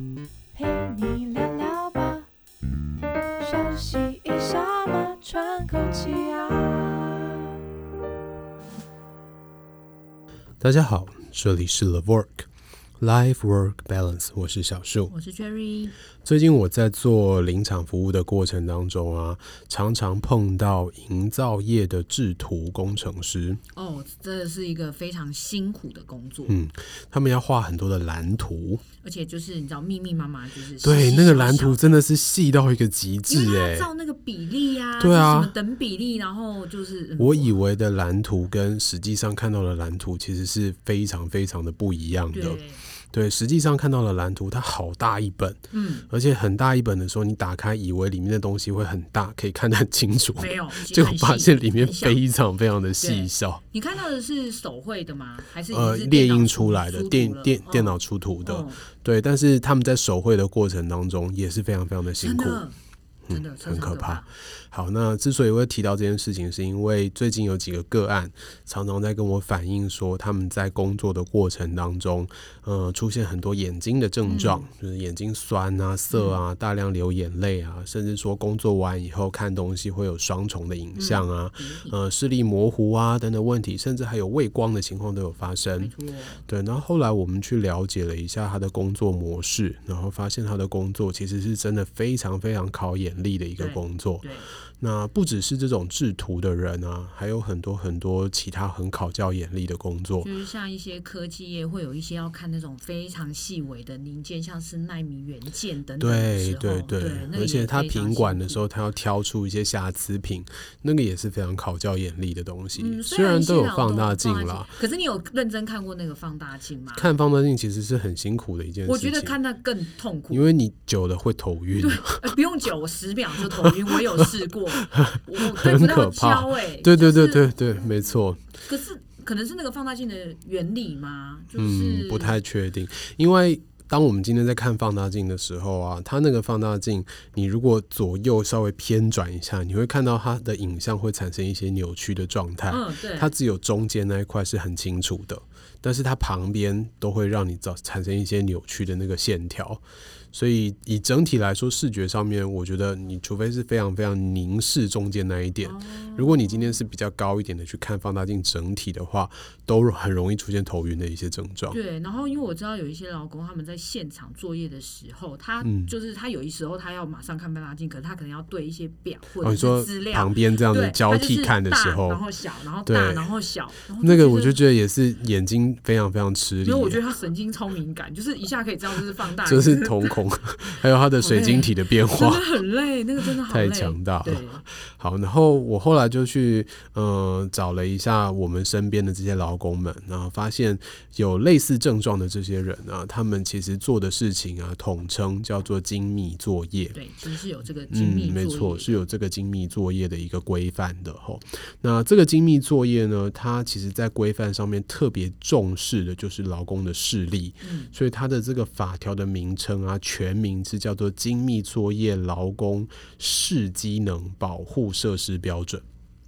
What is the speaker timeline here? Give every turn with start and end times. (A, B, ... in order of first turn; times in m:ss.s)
0:00.5-0:02.3 A
0:03.4-0:07.5 A
0:10.6-0:12.5 B
0:13.0-0:15.1 B
0:15.1-0:16.0 C
0:16.2-0:23.6 B
0:23.7-0:26.6 C
0:26.5-0:28.8 B
0:29.0-0:31.9 C
0:30.8-0:33.9 B
0:33.3-0:37.5 C
0:35.0-0:35.5 B
0:37.2-0:42.6 B
0:42.3-0:42.8 C
0:43.1-0:53.6 B
0:45.7-0:46.1 C
0:50.4-0:52.2 C
0:53.0-0:58.8 C
0:55.7-1:02.6 B
1:02.2-1:02.8 C
1:03.3-1:25.9 B
1:03.3-1:04.3 C
1:14.2-1:14.7 C
1:16.1-1:16.4 C
1:20.9-1:22.0 C
1:25.8-1:26.4 C
1:26.5-1:34.3 B
1:33.6-1:34.5 C
1:34.8-1:40.3 B
1:40.2-1:48.6 C
1:46.0-1:54.7 B
1:52.7-1:57.1 C
1:56.9-1:59.4 B
1:58.8-2:00.5 C
2:00.3-2:02.3 B
2:01.7-2:12.4 C
2:03.5-2:04.3 B
2:04.9-2:08.4 B
2:11.5-2:29.8 B
2:22.7-2:23.3 C
2:30.3-2:41.8 B
2:35.6-2:36.8 C
2:41.7-2:54.6 C
2:45.6-2:45.9 B
2:49.4-2:52.2 B
2:52.8-2:53.3 B
2:54.0-2:57.0 B
2:56.6-3:00.2 C
2:59.4-3:02.4 B
3:01.1-3:04.6 C
3:03.2-3:17.0 B
3:16.9-3:19.0 C
3:17.9-3:35.8 B
3:27.6-3:27.9 C